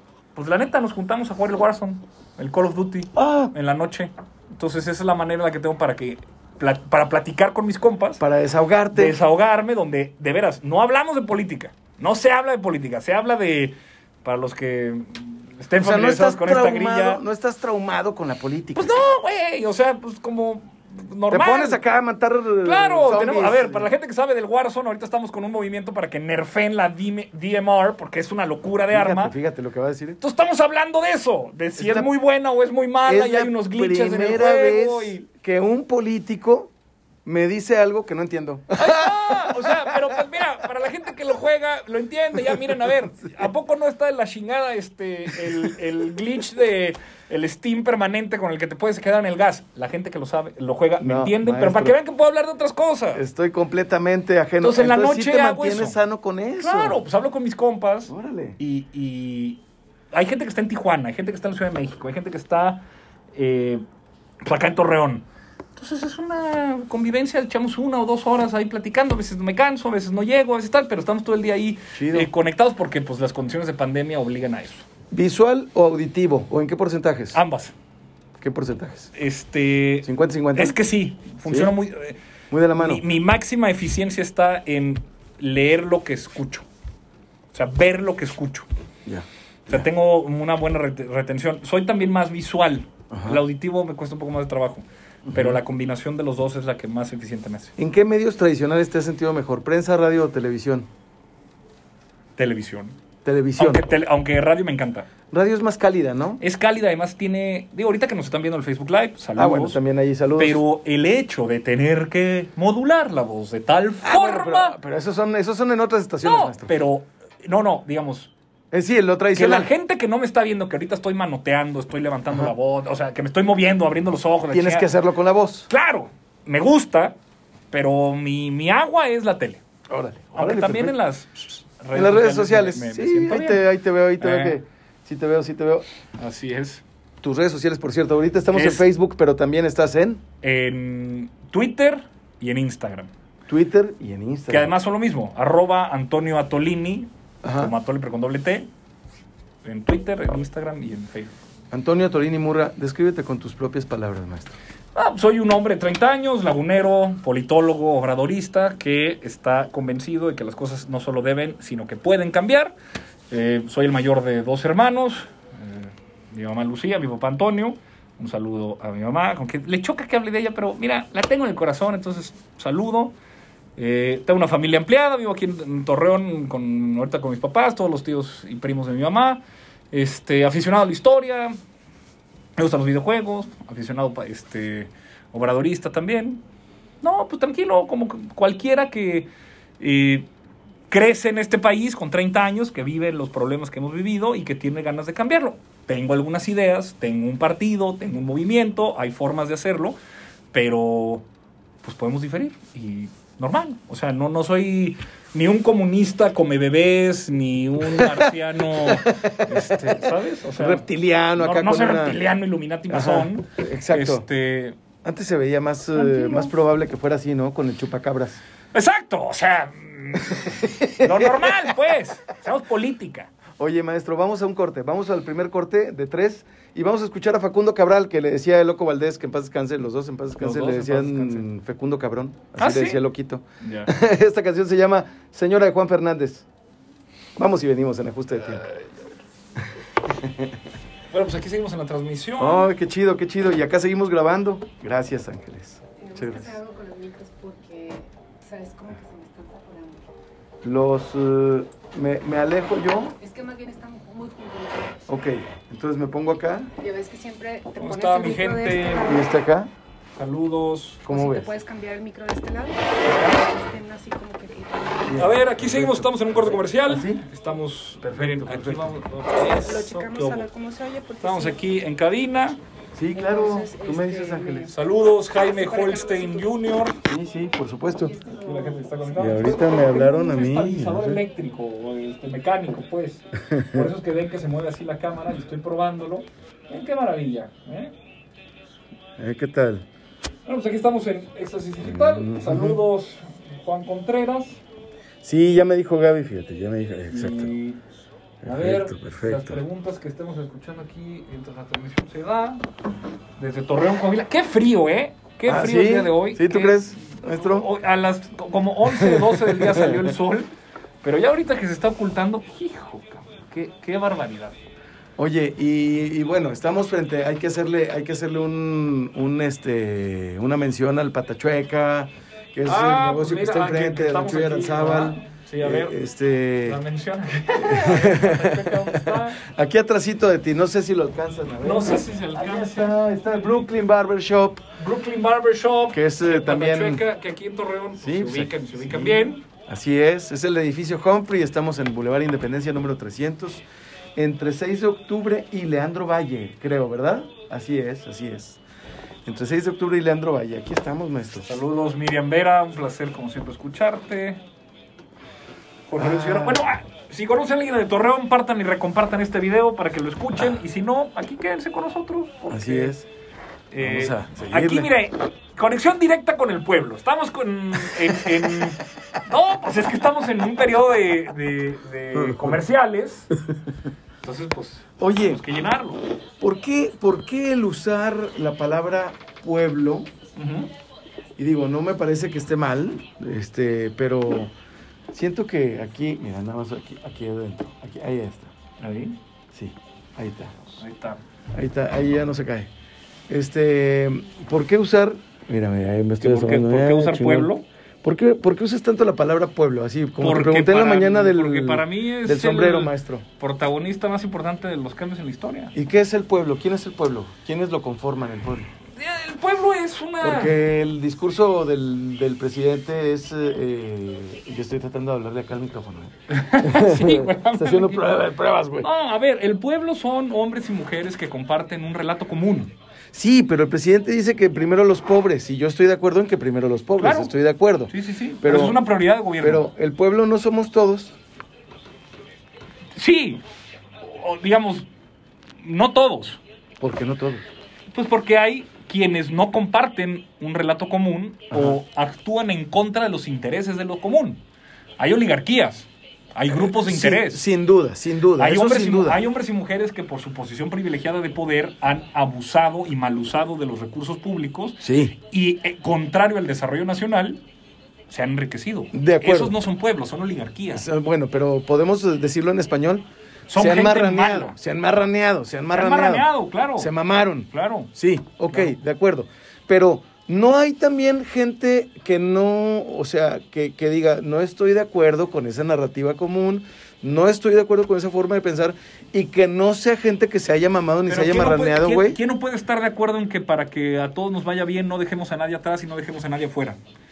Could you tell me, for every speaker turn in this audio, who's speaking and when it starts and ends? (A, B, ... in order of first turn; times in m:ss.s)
0:00.4-0:08.2 A
0:03.2-0:03.5 B
0:08.2-0:09.2 B
0:08.9-0:17.2 A
0:15.8-0:18.9 B
0:18.7-0:21.8 A
0:21.3-0:23.9 B
0:22.6-0:29.4 A
0:28.9-0:30.2 B
0:30.2-0:35.2 A
0:31.8-0:32.1 B
0:33.1-0:36.7 B
0:37.2-0:40.0 B
0:38.8-0:53.2 A
0:51.0-0:52.0 B
0:53.2-0:57.0 B
0:54.6-0:56.0 A
0:56.6-0:59.6 A
0:58.1-0:58.6 B
1:00.1-1:02.8 A
1:03.3-1:03.8 A
1:04.4-1:05.2 A
1:05.8-1:14.9 A
1:11.9-1:12.3 B
1:15.1-1:17.4 B
1:17.3-1:17.7 A
1:18.4-1:19.1 B
1:19.1-1:22.2 A
1:20.0-1:20.8 B
1:21.5-1:21.7 B
1:22.5-1:23.0 B
1:22.8-1:26.7 A
1:27.5-1:28.7 A
1:29.1-1:29.8 B
1:29.7-1:37.8 A
1:33.1-1:33.4 B
1:35.2-1:35.6 B
1:37.8-1:40.9 B
1:42.4-1:43.0 A
1:43.2-1:43.8 B
1:43.6-1:45.1 A
1:45.3-1:46.4 B
1:46.4-1:49.8 A
1:49.4-1:50.6 B
1:50.4-1:54.8 A
1:54.0-1:56.7 B
1:56.2-1:58.3 A
1:58.7-1:59.7 B
1:59.4-2:04.9 A
2:04.5-2:05.7 B
2:05.7-2:07.2 A
2:07.7-2:09.6 A
2:09.9-2:11.0 B
2:10.3-2:13.6 A
2:11.9-2:15.8 B
2:14.2-2:14.6 A
2:16.2-2:16.8 A
2:17.2-2:20.2 B
2:18.5-2:18.8 A
2:20.4-2:23.1 A
2:23.5-2:24.7 B
2:24.5-2:28.7 A
2:27.4-2:27.7 B
2:29.6-2:31.4 A
2:31.7-2:34.6 B
2:35.0-2:42.8 A
2:43.3-2:53.2 A
2:53.8-3:01.6 A
3:02.6-3:06.4 A
3:07.0-3:10.3 A
3:10.9-3:20.0 A
3:20.5-3:21.2 A
3:21.8-3:30.9 A
3:27.9-3:30.0 B
3:30.6-3:32.2 B
3:31.4-3:34.8 A
3:32.9-3:34.2 B
3:35.0-3:38.4 B
3:36.0-3:36.5 C
3:38.7-3:43.3 A
3:40.3-3:41.7 B
3:43.6-3:56.5 B
3:50.4-3:51.5 A
3:52.6-3:53.0 A
3:53.6-3:53.9 A
3:57.4-3:58.6 B
4:00.0-4:00.5 B
4:01.1-4:02.7 A
4:02.4-4:06.6 B
4:06.0-4:10.1 C
4:10.6-4:13.2 B
4:13.2-4:15.1 C
4:15.1-4:16.7 B
4:16.8-4:19.3 C
4:17.8-4:19.2 A
4:19.0-4:19.7 B
4:20.2-4:21.1 A
4:21.1-4:21.5 B
4:21.1-4:25.3 C
4:25.1-4:27.2 B
4:25.2-4:30.5 A
4:28.0-4:29.0 B
4:29.4-4:31.6 C
4:31.2-4:32.6 A
4:33.0-4:34.7 B
4:33.1-4:36.5 C
4:34.7-4:37.0 A
4:37.0-4:38.2 B
4:37.9-4:40.3 C
4:38.4-4:47.9 A
4:39.2-4:41.2 B
4:43.5-4:43.9 B
4:49.2-4:49.9 B
4:50.5-4:54.6 A
4:51.8-4:52.8 B
4:55.2-4:57.5 B
4:57.1-4:57.8 A
4:58.4-4:59.6 B
4:58.4-5:02.6 A
5:03.4-5:10.5 A
5:05.4-5:07.7 B
5:08.9-5:10.1 B
5:11.0-5:14.6 A
5:15.2-5:26.8 B
5:22.6-5:26.0 A
5:26.6-5:29.4 A
5:27.6-5:34.6 B
5:31.6-5:33.0 A
5:34.8-5:39.4 A
5:35.9-5:37.0 B
5:38.0-5:43.6 B
5:44.2-5:48.6 B
5:49.2-5:51.5 B
5:51.4-5:54.4 A
5:55.9-6:03.0 A
5:56.0-5:56.6 B
6:02.5-6:03.1 B
6:03.7-6:13.3 A
6:03.8-6:04.9 B
6:12.1-6:12.6 B
6:14.2-6:16.0 A
6:15.0-6:15.4 B
6:16.4-6:20.1 B
6:20.4-6:20.7 A
6:21.4-6:24.5 B
6:25.1-6:28.5 B
6:28.8-6:29.2 A
6:29.5-6:30.7 B
6:30.8-6:31.2 A
6:31.5-6:32.7 B
6:33.3-6:37.5 B
6:36.2-6:37.6 A
6:38.0-6:43.2 B
6:40.2-6:45.7 A
6:45.7-6:48.7 B
6:49.0-6:50.6 A
6:50.2-6:58.9 B
6:56.3-6:58.2 A
6:58.8-7:02.8 A
7:03.1-7:08.8 B
7:07.0-7:07.3 A
7:07.9-7:09.7 A
7:09.4-7:11.2 B
7:13.0-7:13.4 A
7:14.0-7:14.9 A
7:15.6-7:16.4 A
7:16.8-7:17.4 B
7:17.9-7:24.4 A
7:21.5-7:21.8 B
7:25.0-7:27.4 A
7:26.5-7:29.2 B
7:28.4-7:37.4 A
7:34.8-7:35.2 B
7:38.1-7:40.9 A
7:38.9-7:39.6 B
7:40.7-8:02.2 B
7:43.5-7:44.6 A
7:45.7-7:46.9 A
7:47.5-7:47.9 A
7:48.5-7:48.8 A
8:01.1-8:06.8 A